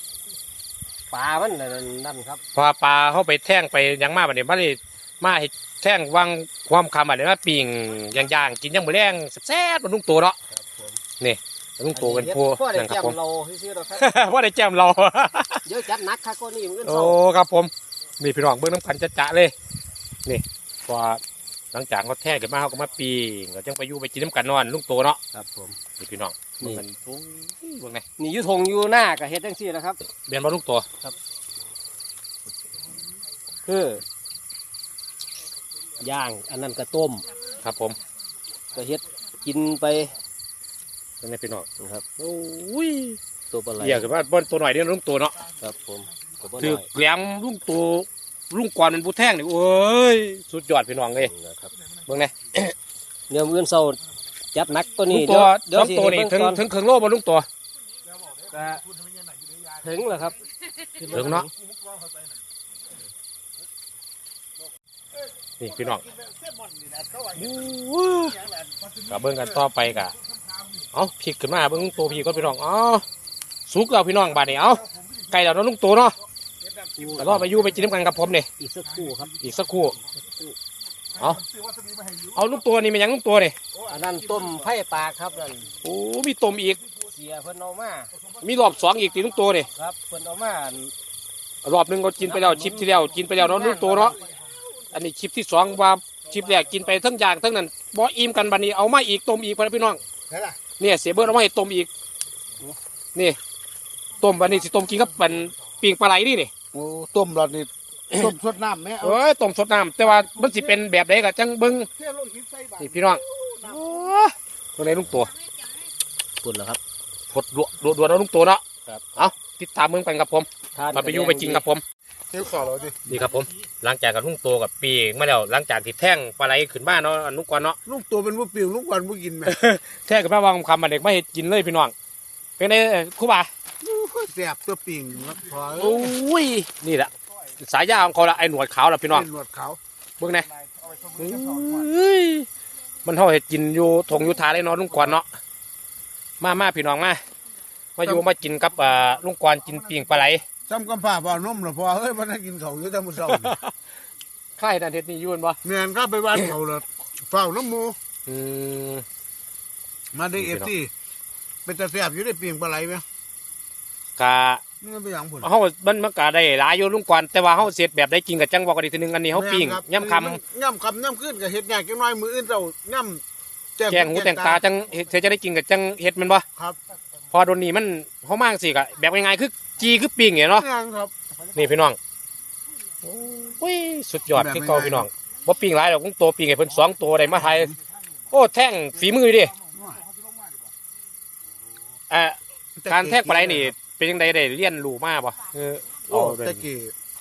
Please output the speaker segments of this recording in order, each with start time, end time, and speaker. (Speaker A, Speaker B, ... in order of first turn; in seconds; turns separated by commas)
Speaker A: 1.1-2.4, Speaker B: 2.5-10.4, Speaker A: 10.6-11.0, Speaker B: 11.2-13.2, Speaker A: 11.9-14.2, Speaker B: 13.9-15.6, Speaker A: 15.6-17.2, Speaker B: 16.8-19.5, Speaker B: 20.2-21.2, Speaker B: 21.7-25.2, Speaker A: 25.3-25.8, Speaker B: 26.0-28.0, Speaker A: 28.2-30.0, Speaker B: 30.3-30.9, Speaker A: 33.6-34.0, Speaker A: 36.0-37.2, Speaker B: 37.6-38.0, Speaker A: 38.7-40.1, Speaker B: 41.2-41.7, Speaker A: 41.8-42.0, Speaker B: 42.2-43.2, Speaker A: 43.5-44.0, Speaker B: 43.8-45.4, Speaker A: 45.6-46.9, Speaker B: 46.6-51.3, Speaker A: 51.2-51.7, Speaker B: 52.1-52.7, Speaker A: 53.3-54.0, Speaker A: 54.5-56.6, Speaker B: 55.1-57.5, Speaker A: 58.5-58.8, Speaker A: 59.8-60.4, Speaker A: 61.0-61.5, Speaker B: 61.1-61.5, Speaker B: 65.6-66.0, Speaker C: 66.2-67.5, Speaker B: 67.3-68.4, Speaker B: 69.1-70.1, Speaker B: 70.9-73.0, Speaker B: 73.7-76.2, Speaker A: 77.0-77.5, Speaker B: 77.2-78.5, Speaker C: 77.3-77.5, Speaker A: 78.6-79.3, Speaker B: 79.4-80.0, Speaker B: 81.2-81.4, Speaker B: 82.3-83.5, Speaker A: 83.9-85.7, Speaker B: 85.8-86.8, Speaker A: 87.1-88.1, Speaker B: 88.4-89.7, Speaker A: 89.7-90.9, Speaker B: 91.6-94.2, Speaker A: 92.2-94.1, Speaker B: 94.9-100.0, Speaker C: 100.3-100.6, Speaker B: 100.8-101.9, Speaker B: 104.2-106.5, Speaker C: 106.7-109.2, Speaker B: 109.0-111.9, Speaker C: 110.0-110.8, Speaker C: 111.9-113.8, Speaker B: 112.8-115.3, Speaker A: 116.4-116.8, Speaker B: 117.3-118.6, Speaker B: 119.1-121.8, Speaker A: 120.7-121.6, Speaker C: 122.3-123.0, Speaker B: 123.0-127.8, Speaker C: 127.8-129.5, Speaker B: 129.4-131.9, Speaker B: 132.6-133.5, Speaker C: 133.8-136.1, Speaker B: 135.8-139.2, Speaker C: 139.1-139.8, Speaker B: 140.2-140.5, Speaker B: 141.2-142.4, Speaker B: 143.0-145.2, Speaker B: 146.4-147.2, Speaker B: 147.9-150.4, Speaker C: 150.7-153.6, Speaker B: 153.2-153.6, Speaker B: 154.6-155.6, Speaker C: 155.6-157.9, Speaker B: 158.3-159.0, Speaker C: 160.1-160.9, Speaker B: 160.4-160.7, Speaker C: 161.7-163.0, Speaker B: 164.2-164.6, Speaker C: 164.8-165.5, Speaker B: 165.4-170.4, Speaker C: 169.3-173.2, Speaker C: 173.8-174.6, Speaker B: 173.9-176.4, Speaker B: 177.3-180.6, Speaker C: 180.6-181.1, Speaker B: 181.5-182.0, Speaker B: 183.0-187.7, Speaker C: 184.3-185.1, Speaker B: 188.3-189.5, Speaker C: 189.7-190.0, Speaker B: 192.1-196.6, Speaker C: 192.8-193.7, Speaker C: 196.1-196.9